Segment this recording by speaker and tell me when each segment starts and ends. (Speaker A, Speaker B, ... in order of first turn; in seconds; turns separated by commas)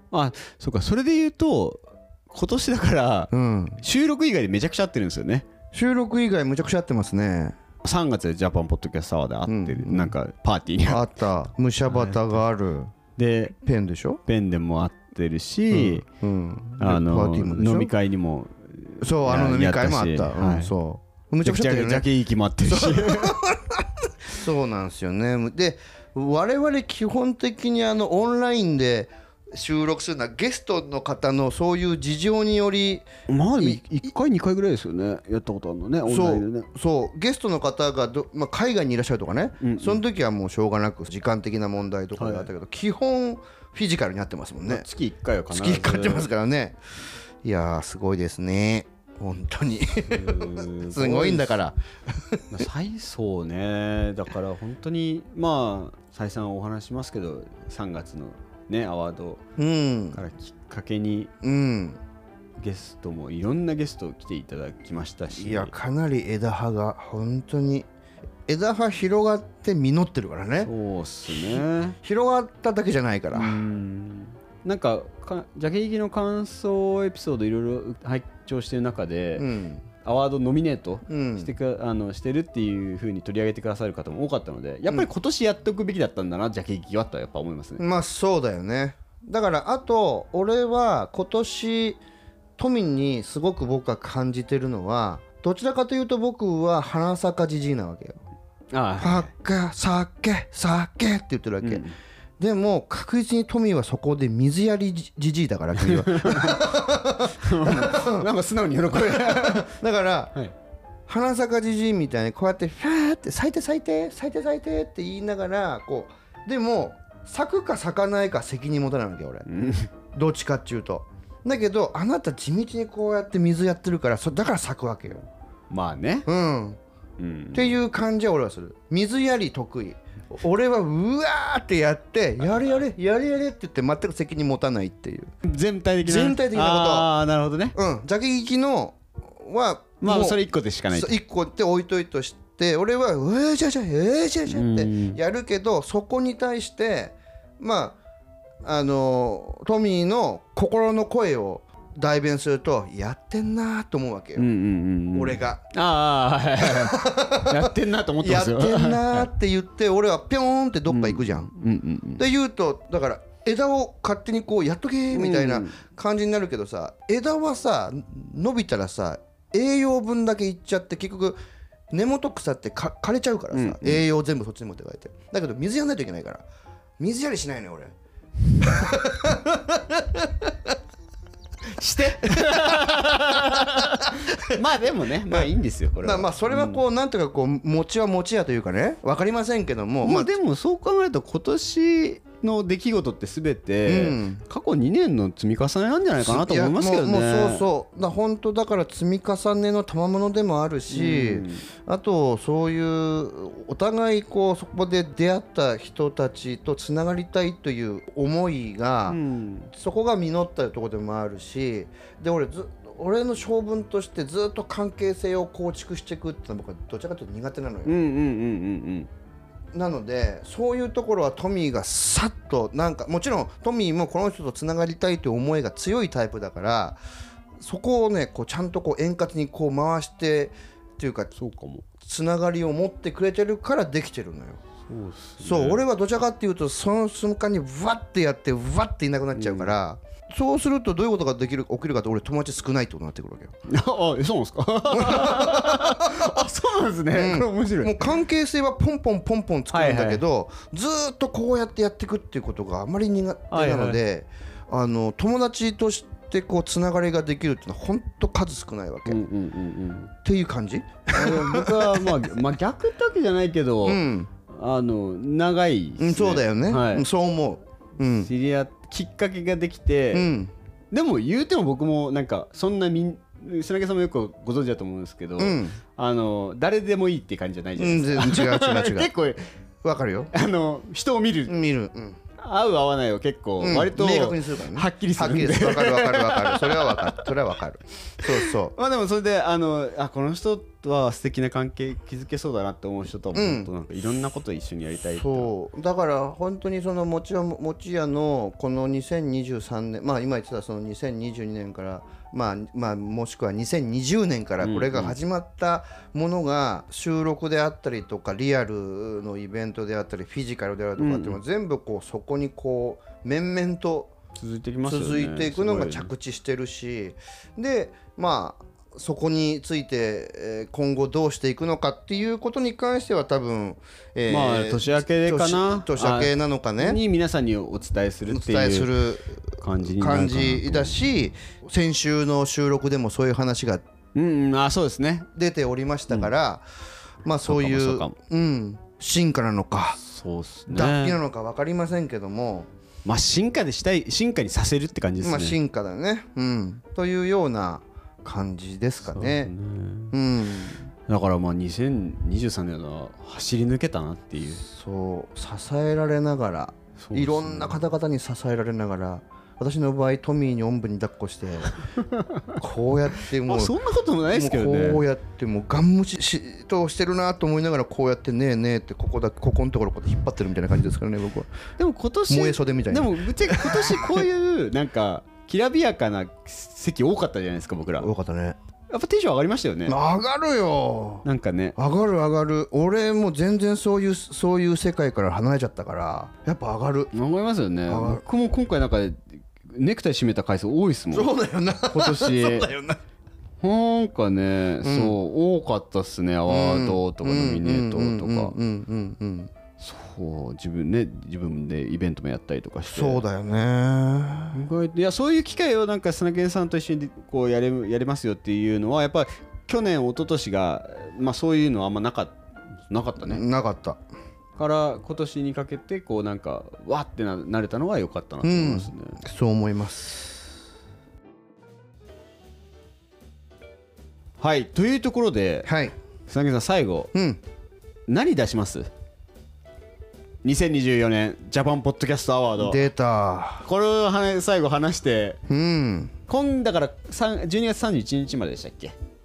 Speaker A: 0.1-5.5, Speaker B: 3.3-3.8, Speaker B: 5.7-7.6, Speaker A: 7.8-11.1, Speaker B: 9.5-10.1, Speaker B: 10.9-12.9, Speaker A: 11.9-12.4, Speaker A: 13.2-13.6, Speaker B: 13.6-14.2, Speaker A: 14.3-16.0, Speaker B: 15.7-17.9, Speaker A: 16.8-20.7, Speaker B: 19.0-22.1, Speaker A: 21.4-23.4, Speaker B: 22.6-33.1, Speaker A: 33.3-36.7, Speaker B: 36.0-44.8, Speaker A: 39.6-40.0, Speaker A: 42.2-42.5, Speaker A: 44.7-46.3, Speaker B: 45.5-46.8, Speaker B: 47.4-52.5, Speaker A: 50.1-51.6, Speaker A: 52.5-59.4, Speaker B: 59.6-60.2, Speaker A: 60.1-61.3, Speaker B: 61.4-62.0, Speaker A: 62.6-65.7, Speaker B: 65.3-67.9, Speaker B: 68.5-70.7, Speaker A: 70.6-72.0, Speaker B: 71.3-73.6, Speaker A: 73.3-79.5, Speaker B: 79.4-79.8, Speaker A: 80.0-87.8, Speaker B: 81.1-81.5, Speaker B: 87.8-92.0, Speaker B: 92.6-98.2, Speaker A: 98.7-99.3, Speaker B: 99.0-101.8, Speaker A: 101.6-101.9, Speaker B: 102.4-108.3, Speaker A: 105.8-109.7, Speaker B: 108.9-110.4, Speaker B: 111.1-119.5, Speaker A: 119.5-119.9, Speaker B: 120.1-125.2, Speaker A: 125.7-126.3, Speaker B: 126.3-126.8, Speaker A: 127.2-127.8, Speaker B: 127.5-135.3, Speaker A: 135.4-137.7, Speaker B: 136.0-137.1, Speaker B: 137.7-148.0, Speaker A: 140.0-141.1, Speaker A: 144.5-145.2, Speaker B: 148.6-154.4, Speaker A: 154.4-159.3, Speaker B: 155.1-155.6, Speaker B: 156.6-161.5, Speaker A: 160.9-162.2, Speaker B: 162.2-171.4, Speaker A: 165.1-165.8, Speaker B: 171.9-176.4, Speaker A: 173.5-174.0, Speaker B: 177.0-177.9, Speaker B: 178.6-180.5, Speaker A: 181.7-186.8, Speaker B: 182.2-182.9, Speaker B: 183.4-184.6, Speaker B: 185.3-190.3, Speaker A: 190.0-197.7, Speaker B: 193.9-194.4, Speaker B: 196.2-209.2, Speaker A: 200.9-201.7, Speaker A: 209.1-209.7, Speaker B: 209.7-217.9, Speaker A: 217.8-219.1, Speaker B: 219.7-227.0, Speaker B: 227.6-231.3, Speaker A: 231.4-231.9, Speaker B: 232.0-234.6, Speaker A: 234.8-235.8, Speaker B: 235.4-243.5, Speaker A: 239.4-239.7, Speaker A: 243.7-248.1, Speaker B: 244.9-246.3, Speaker B: 247.1-259.2, Speaker A: 249.7-250.2, Speaker A: 253.5-254.0, Speaker A: 259.1-260.1, Speaker B: 260.2-262.3, Speaker A: 261.1-267.1, Speaker B: 263.8-264.3, Speaker B: 266.0-268.3, Speaker A: 268.2-270.3, Speaker B: 270.1-270.5, Speaker A: 270.9-279.4, Speaker B: 275.4-275.8, Speaker B: 277.8-279.1, Speaker B: 279.8-280.3, Speaker A: 280.3-281.5, Speaker B: 281.5-282.2, Speaker A: 282.4-287.3, Speaker B: 283.6-288.7, Speaker A: 288.3-295.5, Speaker B: 293.3-293.7, Speaker B: 295.1-314.1, Speaker A: 304.6-305.1, Speaker A: 311.0-311.4, Speaker A: 314.4-316.1, Speaker B: 314.9-327.0, Speaker A: 324.3-328.9, Speaker B: 328.3-333.8, Speaker A: 329.6-331.0, Speaker A: 334.1-335.3, Speaker B: 335.3-336.6, Speaker B: 337.2-340.0, Speaker A: 337.4-338.1, Speaker A: 340.0-341.2, Speaker B: 340.7-342.7, Speaker A: 343.1-345.6, Speaker B: 345.2-349.5, Speaker A: 349.1-350.1, Speaker B: 350.1-350.9, Speaker A: 351.1-354.6, Speaker B: 354.6-361.8, Speaker A: 357.0-357.8, Speaker A: 362.0-362.5, Speaker B: 362.6-363.7, Speaker A: 363.3-365.0, Speaker B: 364.2-371.5, Speaker A: 371.8-378.1, Speaker B: 372.3-374.2, Speaker B: 378.0-378.6, Speaker A: 378.9-379.9, Speaker B: 379.9-381.2, Speaker A: 381.2-381.8, Speaker B: 381.8-387.1, Speaker A: 387.1-391.3, Speaker B: 387.9-388.2, Speaker B: 391.1-393.0, Speaker A: 391.9-392.7, Speaker A: 393.6-398.6, Speaker B: 394.8-395.1, Speaker B: 396.5-399.5, Speaker A: 399.8-403.2, Speaker B: 402.9-404.6, Speaker A: 404.5-413.4, Speaker B: 413.3-414.0, Speaker A: 414.6-419.2, Speaker B: 418.4-420.5, Speaker A: 424.4-425.7, Speaker B: 425.6-425.9, Speaker A: 426.3-427.1, Speaker B: 427.1-427.4, Speaker A: 428.1-428.9, Speaker A: 430.4-432.8, Speaker B: 432.6-433.7, Speaker A: 433.6-435.4, Speaker B: 435.5-436.1, Speaker A: 436.3-438.9